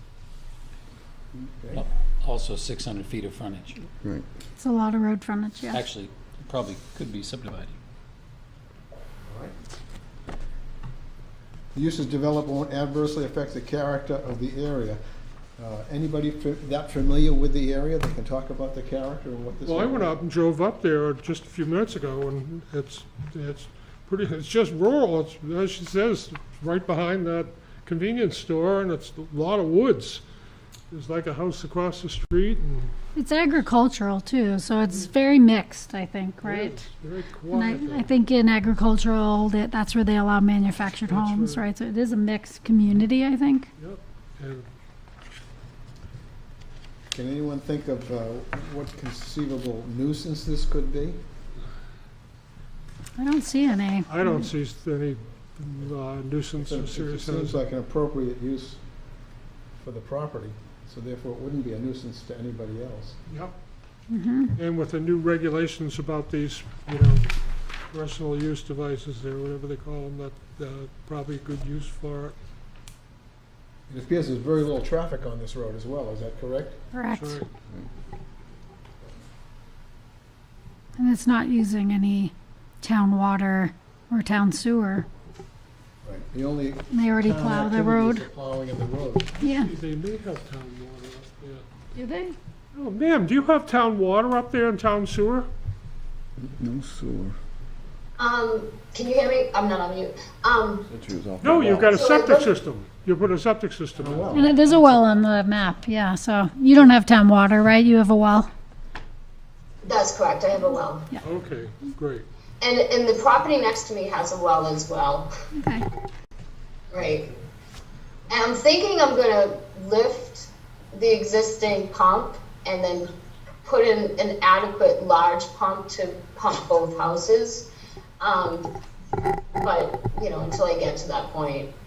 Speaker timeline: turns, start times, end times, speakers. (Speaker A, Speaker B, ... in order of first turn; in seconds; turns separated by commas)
Speaker A: 1.4-1.9, Speaker B: 1.7-3.9, Speaker C: 4.6-5.8, Speaker B: 5.7-7.8, Speaker A: 11.7-15.0, Speaker A: 15.6-20.1, Speaker D: 19.6-30.2, Speaker D: 30.9-32.9, Speaker C: 33.1-36.9, Speaker D: 36.4-38.1, Speaker C: 37.5-43.7, Speaker D: 41.1-41.7, Speaker D: 43.8-44.7, Speaker A: 47.1-51.2, Speaker C: 53.2-54.5, Speaker D: 54.1-57.6, Speaker A: 56.6-58.8, Speaker A: 59.8-63.2, Speaker D: 63.3-63.5, Speaker C: 64.1-64.5, Speaker D: 64.6-67.3, Speaker D: 67.9-72.3, Speaker A: 73.9-76.8, Speaker C: 76.9-77.4, Speaker D: 77.1-77.5, Speaker C: 81.0-85.1, Speaker A: 86.0-89.3, Speaker C: 86.9-88.3, Speaker C: 89.4-89.7, Speaker D: 89.4-91.7, Speaker C: 92.0-92.4, Speaker D: 92.7-95.5, Speaker E: 96.4-97.4, Speaker F: 98.2-100.9, Speaker E: 100.9-102.0, Speaker D: 101.4-104.6, Speaker F: 101.9-102.5, Speaker A: 104.0-105.1, Speaker C: 104.3-108.5, Speaker F: 109.8-111.1, Speaker D: 111.2-112.3, Speaker F: 112.6-115.3, Speaker C: 115.5-115.9, Speaker F: 116.9-117.3, Speaker F: 118.3-123.1, Speaker F: 123.6-127.7, Speaker F: 128.2-128.7, Speaker F: 129.6-131.7